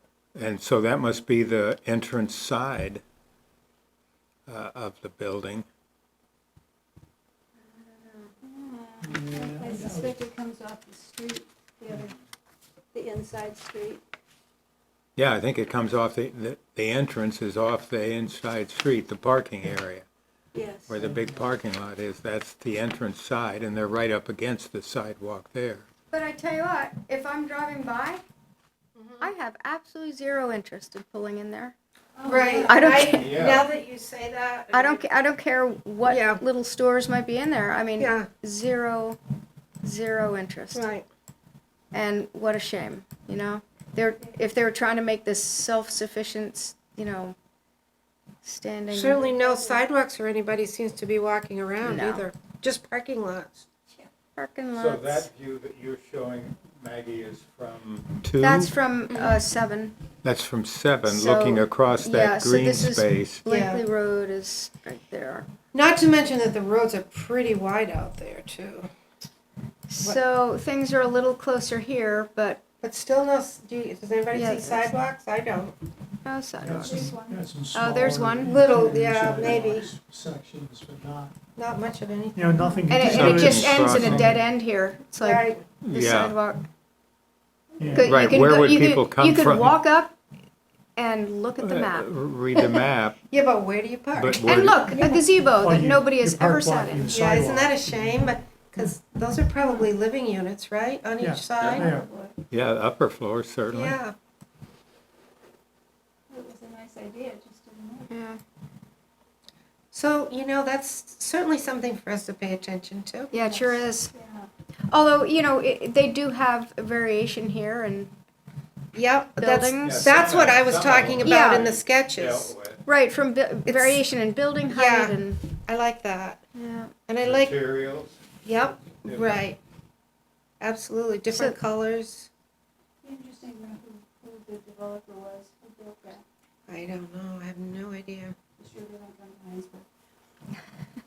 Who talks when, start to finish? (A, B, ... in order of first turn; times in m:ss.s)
0:00.3-0:03.0 A
0:04.5-0:05.6 A
0:07.6-0:08.3 B
0:08.4-0:12.2 C
0:09.0-0:10.1 D
0:12.9-0:14.0 C
0:15.2-0:20.0 A
0:20.5-0:21.0 C
0:20.9-0:25.8 A
0:26.1-0:28.2 B
0:29.0-0:29.3 E
0:29.2-0:31.7 B
0:32.2-0:33.0 C
0:32.2-0:35.0 E
0:32.6-0:33.3 B
0:33.1-0:33.7 A
0:34.7-0:39.2 B
0:36.0-0:36.4 E
0:38.0-0:38.3 E
0:39.8-0:40.9 B
0:40.7-0:41.0 E
0:41.9-0:47.3 B
0:48.4-0:49.8 B
0:48.9-0:53.6 E
0:51.8-0:52.2 B
0:54.4-0:55.3 B
0:54.7-0:58.7 A
0:58.4-1:00.0 B
0:59.1-0:59.4 E
1:00.2-1:03.4 A
1:01.0-1:05.5 B
1:03.4-1:03.8 E
1:05.7-1:08.9 E
1:09.9-1:12.6 B
1:12.8-1:15.8 E
1:14.3-1:14.9 B
1:16.2-1:17.1 B
1:16.6-1:21.4 D
1:16.6-1:17.4 C
1:17.7-1:18.5 B
1:18.4-1:19.9 E
1:21.6-1:22.7 E
1:22.3-1:24.4 D
1:22.9-1:26.7 B
1:23.0-1:24.4 A
1:25.2-1:25.6 E
1:25.8-1:26.4 A
1:27.8-1:28.1 D
1:27.8-1:28.1 C
1:27.9-1:30.1 B
1:28.0-1:29.8 A
1:31.0-1:32.1 B
1:31.6-1:33.2 A
1:32.6-1:34.5 E
1:34.2-1:34.8 A
1:34.4-1:37.1 B
1:34.9-1:35.2 C
1:35.6-1:37.9 D
1:37.1-1:41.9 E
1:39.6-1:39.9 C
1:41.2-1:42.1 D
1:41.6-1:42.4 C
1:42.5-1:44.0 A
1:43.7-1:44.1 E
1:46.3-1:48.1 C
1:48.1-1:48.4 B
1:49.9-1:53.3 E
1:53.3-1:54.1 B
1:53.4-1:54.5 C
1:54.9-1:58.1 B
1:58.9-2:02.5 E
1:59.4-2:00.1 B
1:59.8-2:02.8 A
2:01.2-2:01.6 B
2:02.8-2:05.4 B
2:03.6-2:04.0 E
2:04.7-2:06.4 E
2:06.5-2:06.9 B
2:07.0-2:07.5 E
2:07.2-2:09.4 A
2:08.4-2:09.6 E
2:10.6-2:12.3 E
2:11.3-2:11.6 B
2:13.0-2:16.2 C
2:16.7-2:18.4 E
2:18.6-2:19.9 C